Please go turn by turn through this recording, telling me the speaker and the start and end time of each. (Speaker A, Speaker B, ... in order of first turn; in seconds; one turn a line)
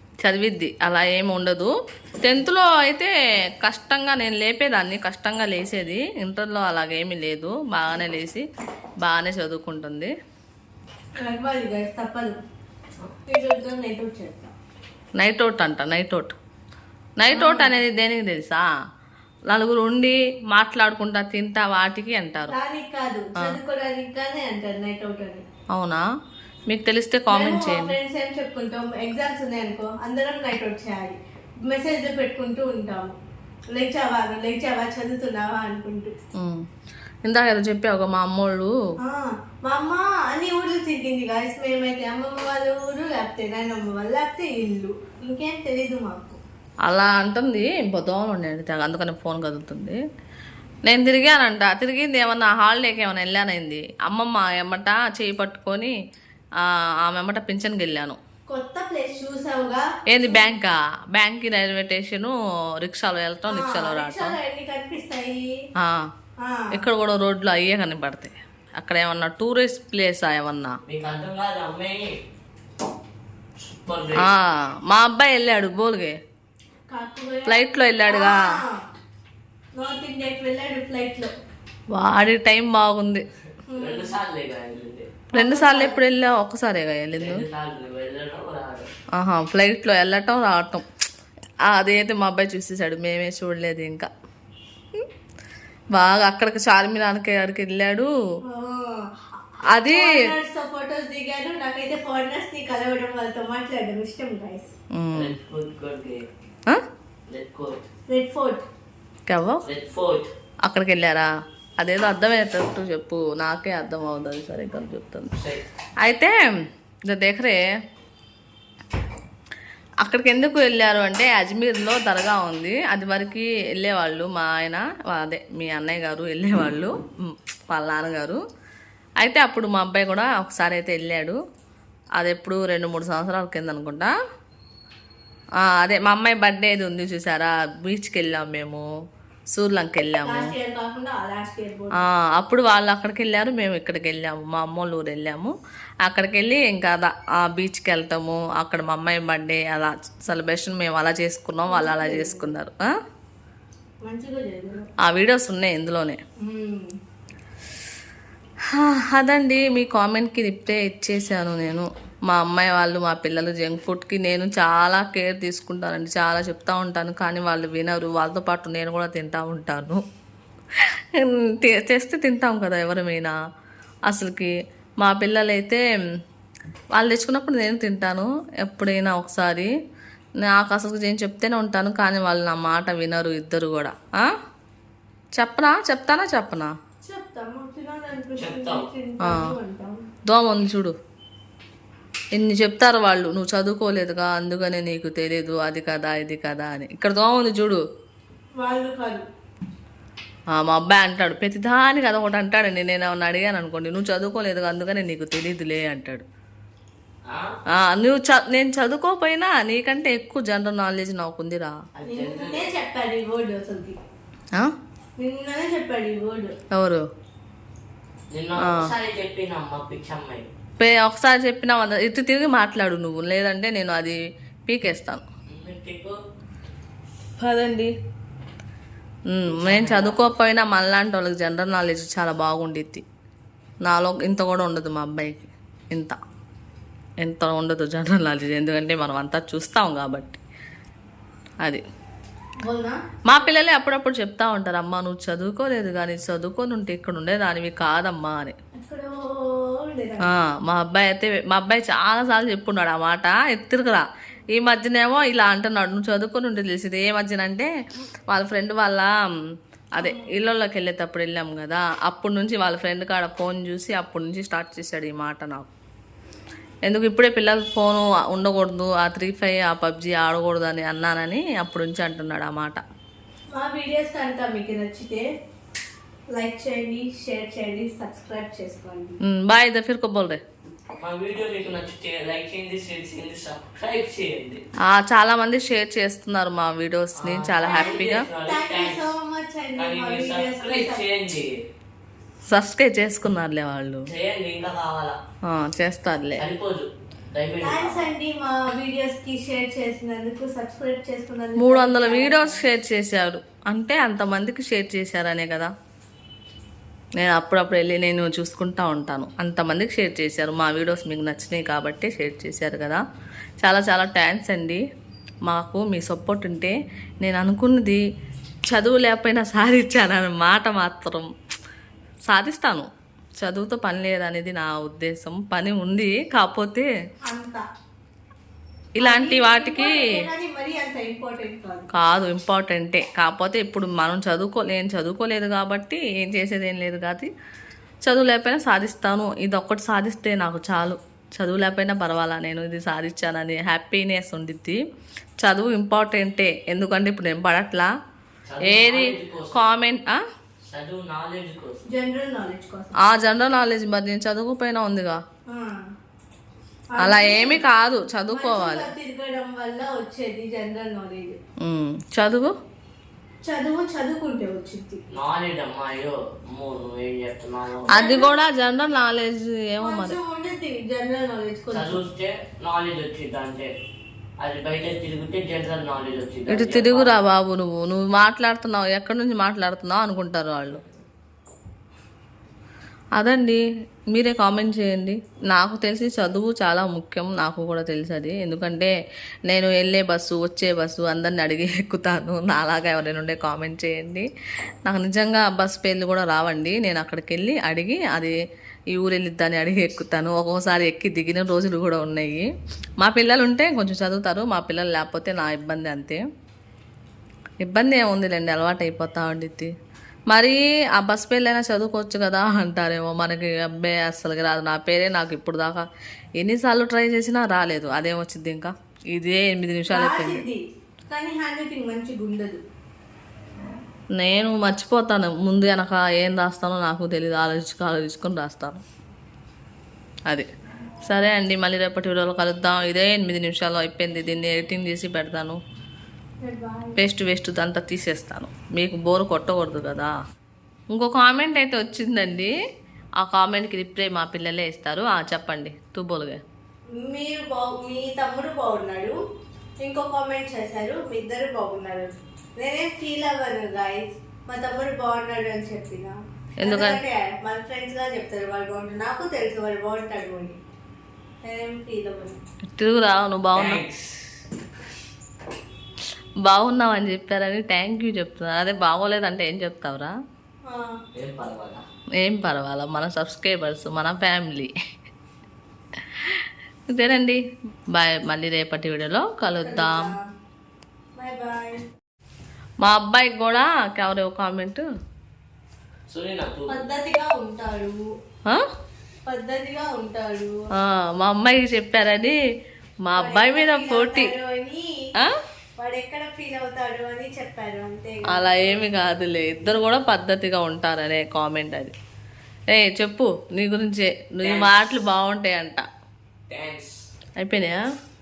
Speaker A: 0.2-8.5
Speaker A: 9.0-10.1
Speaker B: 11.2-12.4
Speaker B: 13.3-14.5
Speaker A: 15.2-16.4
Speaker A: 17.2-18.6
Speaker B: 17.3-17.8
Speaker A: 19.5-22.6
Speaker B: 22.5-25.4
Speaker A: 25.7-26.0
Speaker A: 26.7-27.9
Speaker B: 27.3-31.1
Speaker B: 31.7-33.1
Speaker B: 33.7-36.1
Speaker A: 36.4-36.6
Speaker A: 37.2-38.7
Speaker B: 39.0-46.4
Speaker A: 46.9-50.0
Speaker A: 50.9-55.9
Speaker A: 56.6-58.2
Speaker B: 58.5-60.5
Speaker A: 60.1-64.4
Speaker B: 63.5-65.5
Speaker A: 65.8-66.0
Speaker B: 66.4-66.8
Speaker A: 66.7-70.8
Speaker C: 70.9-72.2
Speaker C: 73.6-74.3
Speaker A: 74.2-76.2
Speaker B: 76.9-78.7
Speaker A: 77.5-78.4
Speaker B: 79.8-81.3
Speaker A: 81.9-83.2
Speaker B: 83.7-84.2
Speaker C: 83.7-85.2
Speaker B: 85.3-86.0
Speaker A: 85.3-87.4
Speaker C: 87.2-88.9
Speaker A: 89.2-90.8
Speaker A: 91.7-94.1
Speaker A: 95.9-98.1
Speaker B: 98.5-99.1
Speaker A: 99.7-100.1
Speaker B: 99.8-104.7
Speaker A: 104.9-105.3
Speaker C: 105.1-106.2
Speaker C: 107.3-107.8
Speaker B: 108.1-108.6
Speaker A: 109.3-109.6
Speaker C: 109.6-110.3
Speaker A: 110.6-111.3
Speaker A: 111.8-115.3
Speaker C: 115.4-115.6
Speaker A: 116.0-116.3
Speaker A: 117.1-117.6
Speaker A: 120.0-128.4
Speaker A: 129.2-131.4
Speaker A: 132.2-134.1
Speaker A: 135.6-138.8
Speaker A: 139.5-140.5
Speaker B: 140.2-142.0
Speaker A: 142.0-145.5
Speaker A: 146.0-152.9
Speaker B: 151.7-152.5
Speaker B: 154.0-154.9
Speaker A: 155.0-156.2
Speaker B: 156.4-156.9
Speaker A: 158.7-170.0
Speaker A: 171.1-173.3
Speaker A: 174.1-175.8
Speaker A: 176.9-179.7
Speaker A: 180.4-184.3
Speaker A: 185.4-186.7
Speaker B: 187.0-190.0
Speaker C: 188.4-188.9
Speaker A: 190.2-190.9
Speaker A: 192.3-197.8
Speaker B: 198.6-199.2
Speaker A: 200.5-206.2
Speaker A: 207.8-211.7
Speaker C: 211.9-212.7
Speaker B: 212.1-214.0
Speaker B: 215.2-216.5
Speaker A: 216.7-217.0
Speaker C: 218.3-220.5
Speaker A: 218.6-218.9
Speaker A: 220.8-225.2
Speaker C: 225.5-226.2
Speaker A: 227.4-227.9
Speaker A: 229.3-233.0
Speaker C: 229.5-230.3
Speaker A: 233.8-236.2
Speaker A: 237.2-240.4
Speaker B: 242.6-243.0
Speaker A: 243.2-248.5
Speaker B: 248.8-250.4
Speaker A: 250.2-257.7
Speaker A: 258.3-259.1
Speaker A: 260.0-265.7
Speaker B: 260.0-260.3
Speaker A: 266.9-272.8
Speaker B: 273.6-275.2
Speaker B: 276.3-279.1
Speaker A: 279.2-280.4
Speaker C: 281.0-284.6
Speaker A: 284.9-288.2
Speaker C: 287.2-289.1
Speaker B: 287.6-291.0
Speaker C: 289.7-291.5
Speaker A: 292.5-294.1
Speaker C: 294.1-295.2
Speaker A: 295.5-296.4
Speaker C: 296.4-298.1
Speaker B: 297.6-302.6
Speaker A: 301.6-305.7
Speaker A: 307.2-313.0
Speaker A: 313.6-314.8
Speaker A: 315.5-318.0
Speaker A: 318.7-321.3
Speaker A: 322.3-322.9
Speaker A: 323.4-326.9
Speaker B: 327.2-327.6
Speaker A: 329.0-330.0
Speaker B: 329.0-331.9
Speaker A: 331.9-337.3
Speaker A: 338.1-344.8
Speaker A: 345.4-347.9
Speaker C: 348.4-349.7
Speaker A: 348.6-350.2
Speaker C: 350.7-351.9
Speaker B: 351.9-353.0
Speaker A: 353.0-355.2
Speaker B: 355.5-355.8
Speaker B: 356.9-357.7
Speaker A: 357.0-358.9
Speaker B: 358.3-361.4
Speaker A: 361.6-362.5
Speaker B: 363.4-365.0
Speaker C: 365.1-367.9
Speaker B: 367.9-368.4
Speaker A: 367.9-370.2
Speaker B: 369.8-372.0
Speaker C: 371.7-373.7
Speaker C: 374.4-377.2
Speaker A: 376.5-380.8
Speaker A: 383.2-383.6
Speaker A: 384.1-388.9
Speaker A: 389.5-394.3
Speaker A: 394.9-398.4
Speaker A: 398.9-402.5
Speaker A: 403.0-406.2
Speaker A: 407.6-409.7
Speaker A: 410.3-415.8
Speaker A: 416.4-420.4
Speaker B: 419.9-422.6
Speaker A: 424.2-428.8
Speaker A: 431.1-435.6
Speaker B: 436.4-437.0
Speaker A: 437.0-440.1
Speaker A: 440.9-442.5
Speaker A: 443.2-446.4
Speaker B: 447.0-449.1
Speaker B: 449.8-460.6
Speaker A: 456.6-457.0
Speaker B: 461.4-462.4
Speaker A: 462.7-463.8
Speaker C: 463.6-464.4
Speaker A: 466.4-470.1
Speaker B: 470.7-471.0
Speaker C: 471.1-471.8
Speaker A: 472.2-474.7
Speaker A: 476.2-477.4
Speaker A: 477.9-480.1
Speaker B: 479.6-480.2
Speaker B: 481.2-481.8
Speaker A: 482.8-484.9
Speaker C: 486.1-486.9
Speaker B: 486.7-488.0
Speaker B: 489.2-490.6
Speaker A: 490.7-492.4
Speaker A: 493.1-494.3
Speaker B: 493.1-494.9
Speaker B: 495.8-498.8
Speaker A: 498.3-501.9
Speaker A: 502.7-505.8
Speaker C: 504.4-504.9
Speaker C: 506.5-506.9
Speaker A: 507.4-507.8